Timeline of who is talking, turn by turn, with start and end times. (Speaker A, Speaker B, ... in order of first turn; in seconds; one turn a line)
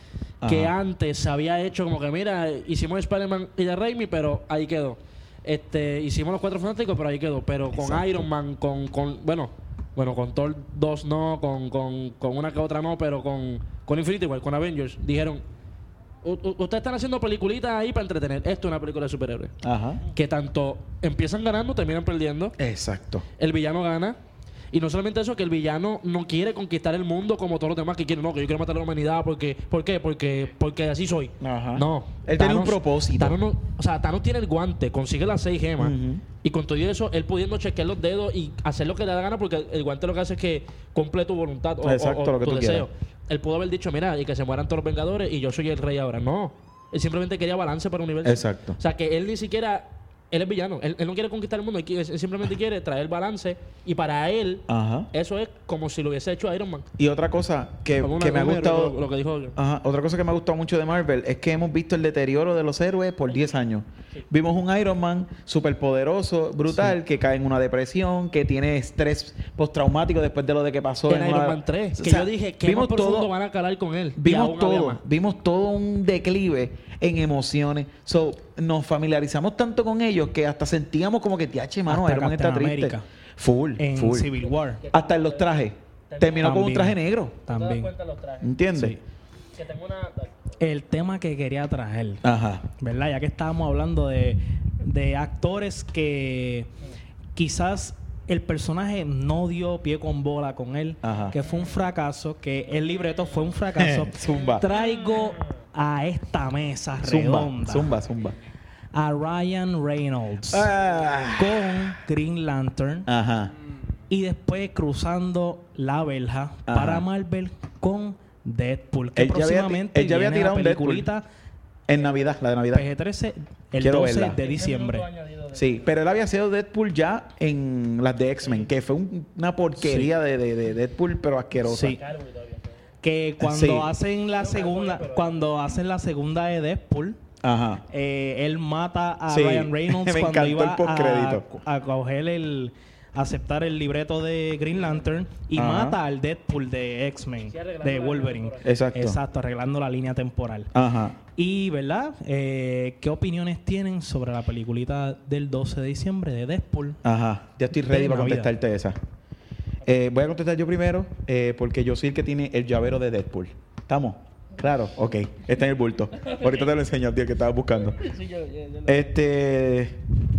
Speaker A: 0.4-0.7
Speaker B: 0.4-15.4
Speaker A: 7.7-8.2
Speaker B: 16.2-19.5
Speaker A: 19.6-20.0
Speaker B: 20.1-22.6
Speaker A: 22.6-23.2
Speaker B: 23.4-24.2
Speaker B: 24.7-56.9
Speaker A: 31.4-33.4
Speaker A: 35.8-36.2
Speaker A: 41.8-42.9
Speaker A: 48.2-48.8
Speaker A: 54.7-55.1
Speaker A: 57.0-59.0
Speaker B: 58.0-59.5
Speaker A: 59.5-73.3
Speaker B: 71.1-75.0
Speaker A: 74.2-84.3
Speaker C: 81.9-83.0
Speaker C: 83.8-84.8
Speaker B: 84.8-86.6
Speaker A: 84.9-87.4
Speaker C: 86.4-87.9
Speaker B: 87.5-88.5
Speaker A: 88.4-89.0
Speaker C: 88.7-89.0
Speaker B: 89.5-90.5
Speaker C: 90.6-92.2
Speaker A: 92.2-92.6
Speaker C: 92.8-96.7
Speaker C: 97.3-107.9
Speaker A: 101.0-101.4
Speaker A: 103.8-104.7
Speaker A: 107.0-108.4
Speaker C: 108.9-110.7
Speaker A: 110.5-111.8
Speaker C: 111.3-113.1
Speaker A: 113.1-113.5
Speaker C: 114.1-121.2
Speaker A: 116.7-117.0
Speaker A: 119.2-121.1
Speaker A: 121.9-122.8
Speaker C: 122.7-125.1
Speaker A: 123.8-124.4
Speaker B: 124.3-125.9
Speaker A: 125.5-132.0
Speaker C: 129.8-130.1
Speaker C: 131.6-132.0
Speaker B: 131.8-132.8
Speaker C: 133.0-137.2
Speaker A: 133.4-133.9
Speaker B: 134.4-135.5
Speaker A: 137.4-137.8
Speaker C: 137.9-150.7
Speaker A: 139.3-141.5
Speaker A: 145.5-146.0
Speaker B: 147.5-148.7
Speaker A: 148.6-149.2
Speaker A: 150.7-151.2
Speaker C: 151.3-157.0
Speaker A: 157.0-159.0
Speaker C: 157.8-158.5
Speaker A: 159.8-168.0
Speaker B: 166.2-166.6
Speaker B: 168.0-168.9
Speaker A: 168.9-170.0